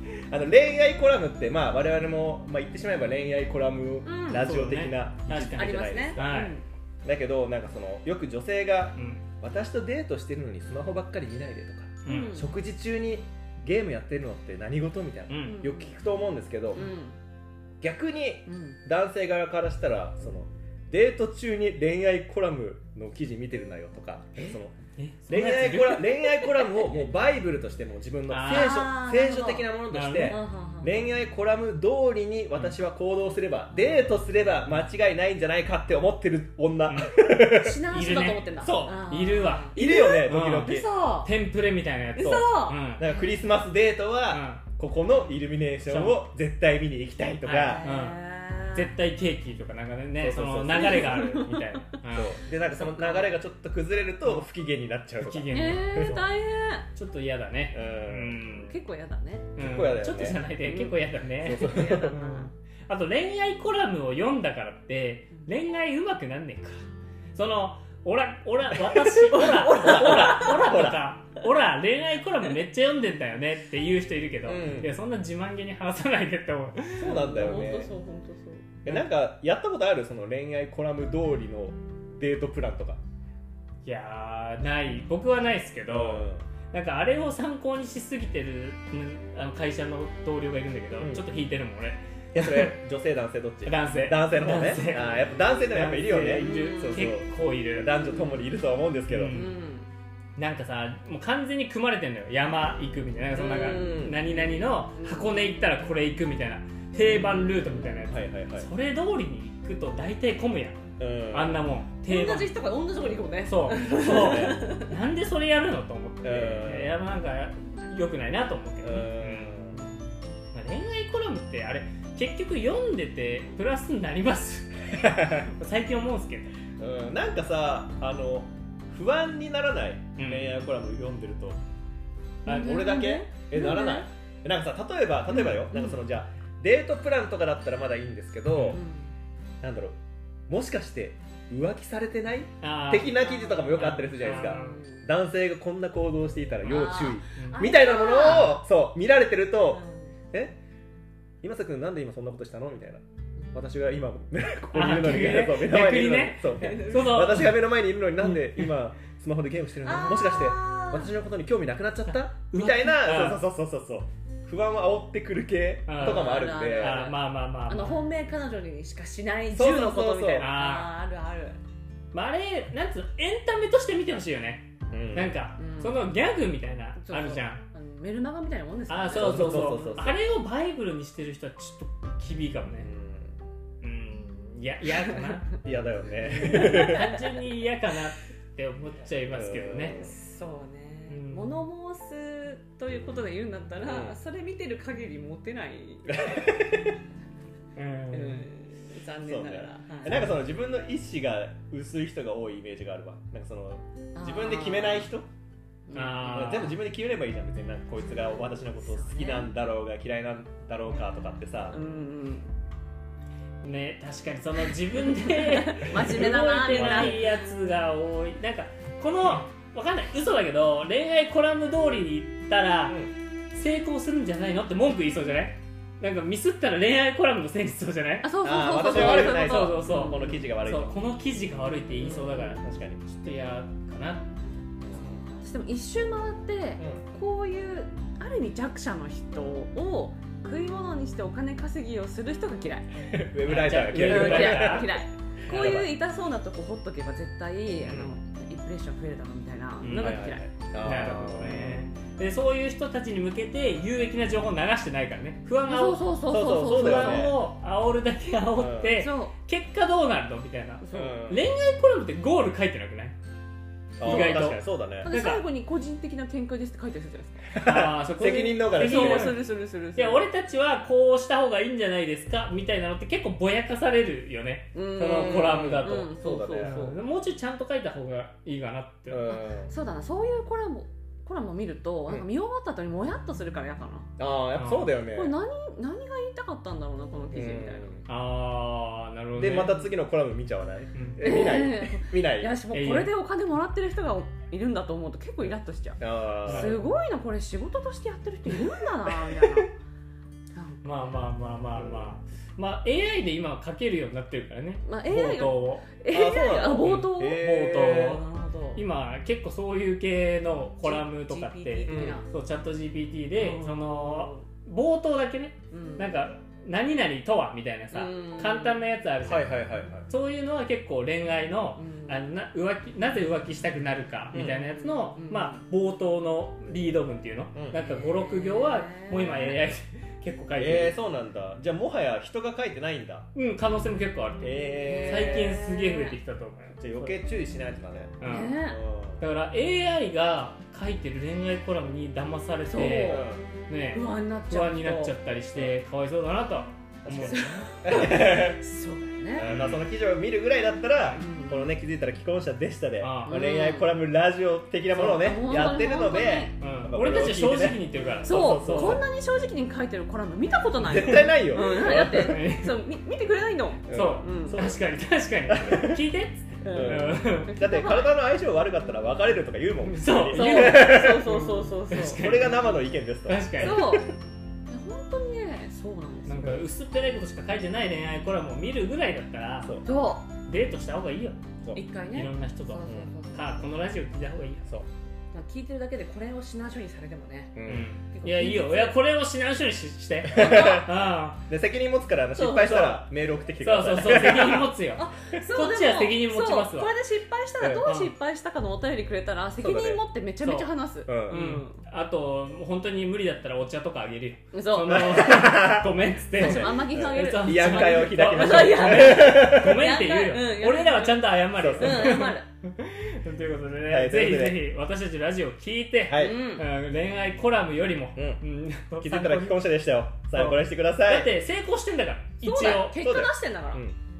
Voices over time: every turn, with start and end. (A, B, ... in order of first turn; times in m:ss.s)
0:00.3-0:06.3 A
0:04.0-0:04.4 B
0:04.3-0:06.6 C
0:05.5-0:06.6 B
0:07.0-0:16.9 A
0:08.9-0:09.2 C
0:12.0-0:12.4 C
0:12.0-0:12.5 B
0:15.3-0:15.6 C
0:15.4-0:16.0 B
0:16.7-0:17.2 B
0:17.8-0:24.7 A
0:18.5-0:18.8 B
0:24.4-0:26.3 C
0:25.3-0:37.8 A
0:26.4-0:26.9 B
0:28.3-0:28.9 C
0:28.5-0:29.7 B
0:29.9-0:30.5 C
0:30.3-0:31.0 B
0:36.8-0:43.1 C
0:37.5-0:41.3 B
0:38.6-0:39.0 A
0:39.7-0:40.8 A
0:42.1-0:43.3 B
0:42.9-0:47.8 A
0:44.3-0:44.6 C
0:45.8-0:46.2 C
0:47.4-0:48.2 C
0:47.6-0:48.9 B
0:48.7-0:52.4 C
0:50.2-0:51.2 A
0:50.7-0:51.8 B
0:52.1-0:55.6 A
0:52.7-0:53.4 B
0:55.2-0:56.2 C
0:55.5-0:56.9 B
0:56.9-0:58.8 C
0:57.7-0:58.6 A
0:58.6-0:59.6 B
0:59.6-1:17.2 C
0:59.6-1:00.4 A
1:00.5-1:01.0 B
1:01.4-1:02.2 A
1:01.6-1:02.5 B
1:09.2-1:10.7 B
1:09.8-1:11.0 A
1:14.4-1:14.9 A
1:17.0-1:17.9 A
1:17.0-1:18.8 B
1:18.8-1:23.0 A
1:23.8-1:32.7 C
1:25.9-1:26.4 A
1:31.0-1:31.2 A
1:32.3-1:39.4 A
1:33.6-1:38.0 C
1:36.3-1:37.0 B
1:38.0-1:38.4 B
1:39.1-1:39.5 C
1:39.3-1:39.9 B
1:40.4-1:52.5 C
1:43.3-1:45.5 B
1:43.6-1:44.2 A
1:47.0-1:48.0 B
1:48.1-1:48.7 A
1:51.0-1:51.6 A
1:52.0-1:54.9 B
1:53.4-1:59.6 C
1:54.0-1:54.6 A
1:56.2-1:57.0 A
1:58.8-1:59.8 A
2:00.5-2:06.5 C
2:05.0-2:05.4 A
2:06.8-2:11.6 A
2:10.2-2:10.5 C
2:12.4-2:14.1 B
2:12.4-2:12.8 C
2:12.5-2:18.8 A
2:15.3-2:16.0 B
2:18.5-2:18.8 C
2:18.7-2:19.1 B
2:19.6-2:20.0 A
2:20.5-2:29.8 A
2:22.6-2:24.8 C
2:23.2-2:23.5 B
2:24.2-2:25.1 B
2:26.6-2:28.5 B
2:26.7-2:28.6 C
2:29.7-2:30.1 B
2:31.4-2:33.0 A
2:33.5-2:47.0 A
2:34.7-2:37.6 C
2:36.6-2:37.2 B
2:38.2-2:38.7 C
2:39.8-2:41.1 B
2:42.1-2:43.4 C
2:45.9-2:48.0 C
2:46.0-2:51.6 B
2:49.5-2:50.5 A
2:50.4-2:50.9 C
2:52.1-2:57.6 C
2:54.9-2:55.4 A
2:55.5-2:56.1 B
2:57.0-3:00.0 B
2:58.9-3:02.9 C
2:59.1-3:00.2 A
3:02.8-3:03.3 A
3:03.8-3:05.5 C
3:05.6-3:07.1 A
3:06.2-3:10.0 C
3:06.3-3:07.3 B
3:09.3-3:10.1 A
3:09.9-3:16.2 B
3:11.1-3:11.6 C
3:13.8-3:14.2 A
3:16.1-3:16.9 A
3:17.7-3:18.5 C
3:18.1-3:20.4 B
3:19.2-3:25.3 A
3:24.1-3:25.1 B
3:25.9-3:26.7 B
3:25.9-3:26.8 C
3:26.2-3:31.8 A
3:28.2-3:29.5 B
3:31.7-3:32.5 B
3:33.6-3:43.0 C
3:35.0-3:37.5 B
3:36.7-3:37.2 A
3:42.9-3:43.1 A
3:43.5-3:54.3 C
3:48.2-3:50.4 B
3:48.4-3:51.0 A
3:52.0-3:53.0 A
3:54.8-3:55.2 A
3:55.4-4:02.9 B
3:56.8-3:57.0 A
4:03.1-4:06.0 A
4:03.4-4:05.0 C
4:04.0-4:10.4 B
4:07.8-4:08.1 A
4:09.8-4:23.1 C
4:10.0-4:11.8 A
4:15.6-4:17.2 B
4:16.3-4:17.4 A
4:18.6-4:19.0 A
4:18.8-4:19.3 B
4:20.8-4:21.3 B
4:20.9-4:21.4 A
4:24.0-4:25.1 A
4:24.0-4:25.4 C
4:24.0-4:27.6 B
4:27.5-4:29.3 A
4:27.6-4:39.3 C
4:28.7-4:30.2 B
4:34.7-4:37.0 B
4:35.2-4:36.9 A
4:39.1-4:39.7 A
4:39.2-4:44.1 B
4:44.2-4:45.3 A
4:44.5-4:45.0 C
4:45.1-4:48.0 B
4:47.3-4:48.0 A
4:48.0-4:49.8 C
4:49.4-4:52.6 A
4:50.9-4:51.4 C
4:51.2-4:59.7 B
4:52.7-4:53.1 C
4:56.0-4:56.8 A
4:56.4-4:56.9 C
5:00.5-5:00.9 B
5:00.8-5:05.8 C
5:01.8-5:02.1 A
5:04.8-5:08.8 B
5:06.1-5:08.2 A
5:06.8-5:30.9 C
5:10.8-5:12.3 B
5:11.8-5:12.2 A
5:13.4-5:14.4 B
5:15.7-5:16.2 B
5:17.9-5:18.9 B
5:19.2-5:20.1 A
5:21.7-5:22.3 B
5:24.3-5:24.6 A
5:24.7-5:25.7 B
5:27.5-5:27.8 A
5:27.8-5:29.6 B
5:30.6-5:33.3 A
5:33.3-5:37.2 C
5:34.4-5:35.6 A
5:34.6-5:36.2 B
5:36.8-5:39.2 A
5:38.2-5:47.4 C
5:38.2-5:38.8 B
5:42.7-5:43.3 B
5:43.1-5:43.4 A
5:43.9-5:45.1 B
5:47.0-5:48.6 A
5:47.2-5:49.5 B
5:49.3-5:59.0 A
5:49.4-5:49.9 C
5:51.1-5:51.7 B
5:53.0-5:53.4 C
5:53.2-5:54.0 B
5:54.9-5:56.6 B
5:56.6-5:59.0 C
5:58.2-6:04.6 B
6:00.8-6:02.4 A
6:00.9-6:02.8 C
6:03.9-6:04.8 A
6:03.9-6:07.6 C
6:05.5-6:06.0 A
6:06.6-6:08.1 B
6:06.7-6:11.4 A
6:09.8-6:12.7 C
6:10.3-6:12.3 B
6:12.2-6:14.0 A
6:13.2-6:14.0 C
6:13.6-6:14.1 B
6:14.7-6:16.5 B
6:16.2-6:19.8 C
6:19.6-6:19.9 A
6:19.8-6:20.3 B
6:20.4-6:21.4 C
6:21.7-6:23.5 B
6:22.1-6:24.7 C
6:25.3-6:29.0 B
6:27.6-6:27.9 A
6:27.6-6:31.4 C
6:30.3-6:30.9 A
6:30.4-6:30.9 B
6:31.5-6:34.7 A
6:32.3-6:32.8 B
6:32.6-6:33.0 C
6:33.6-6:36.9 C
6:34.9-6:41.8 B
6:37.6-6:37.9 A
6:37.8-6:38.1 C
6:39.6-6:40.0 A
6:40.4-6:40.7 C
6:41.1-6:41.4 A
6:41.2-6:59.7 C
6:44.5-6:45.6 B
6:44.9-6:49.8 A
6:46.3-6:52.5 B
6:51.5-6:52.1 A
6:53.9-6:54.6 A
6:56.1-6:56.4 A
6:56.2-6:56.7 B
6:58.2-6:58.4 A
6:59.0-7:01.3 A
7:00.3-7:03.1 C
7:02.4-7:03.8 B
7:02.9-7:04.0 A